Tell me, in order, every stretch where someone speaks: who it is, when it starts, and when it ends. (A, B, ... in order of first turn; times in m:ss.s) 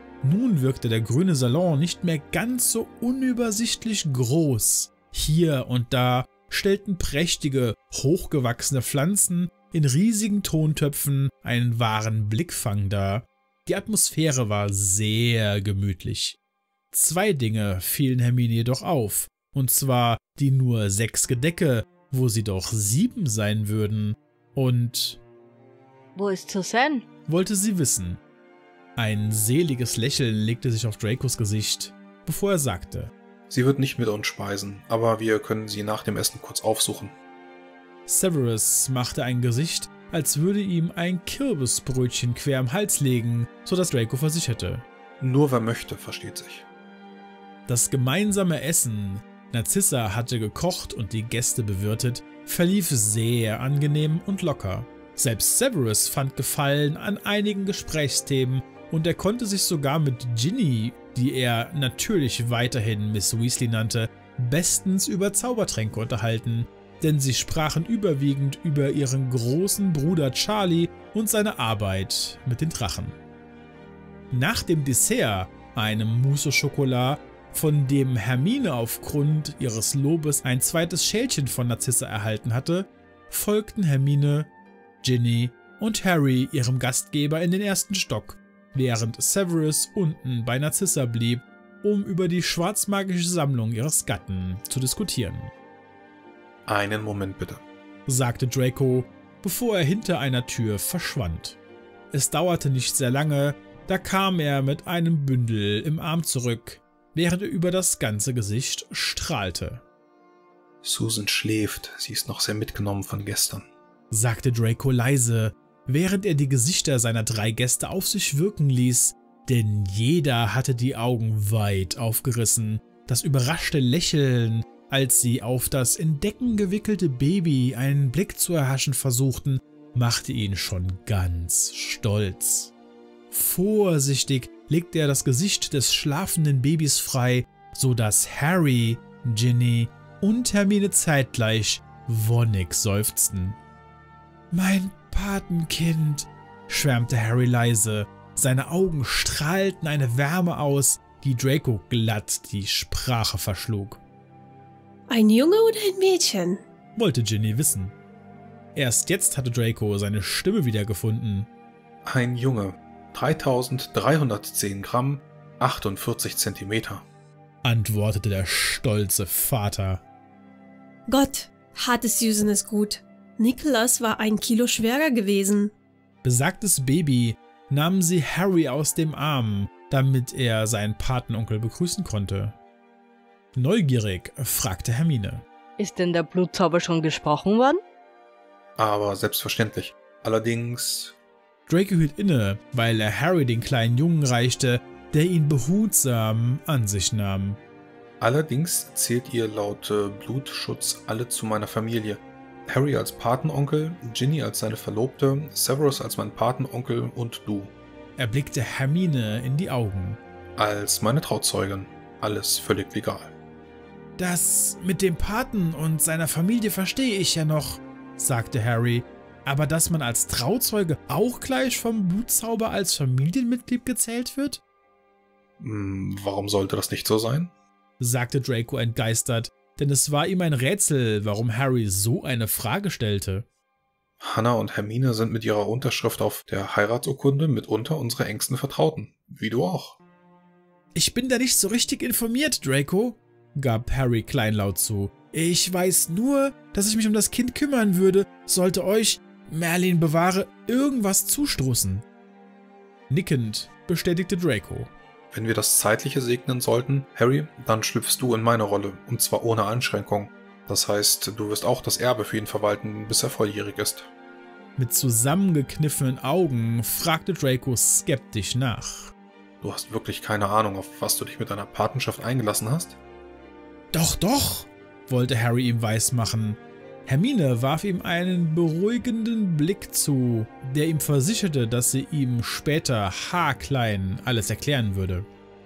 0:00.2-0:16.4 A
0:16.9-0:25.2 A
0:26.1-0:27.0 B
0:27.3-0:28.2 A
0:29.0-0:33.1 A
0:33.5-0:37.1 C
0:38.1-0:44.8 A
0:45.2-0:46.7 C
0:47.7-1:13.2 A
1:14.3-1:24.5 A
1:25.0-1:35.5 A
1:36.7-1:37.6 C
1:38.1-1:41.6 A
1:42.1-1:49.8 A
1:50.8-1:53.7 C
1:54.1-2:12.7 A
2:13.3-2:23.6 A
2:24.5-2:34.0 A
2:35.1-2:36.6 D
2:37.0-2:38.0 A
2:38.8-2:41.5 A
2:42.1-2:47.0 C
2:47.6-2:50.0 A
2:51.1-2:55.7 D
2:56.2-3:02.6 A
3:03.6-3:05.4 A
3:05.8-3:07.8 B
3:08.8-3:11.1 C
3:11.7-3:17.6 A
3:18.2-3:27.7 C
3:28.2-3:30.2 A
3:30.6-3:33.3 C
3:34.2-3:44.6 A
3:45.6-3:47.5 C
3:48.0-3:53.5 A
3:54.2-4:00.0 C
4:01.0-4:12.0 A
4:13.1-4:14.9 A
4:15.3-4:24.1 C
4:24.8-4:29.1 A
4:29.6-4:33.0 C
4:33.9-4:45.3 A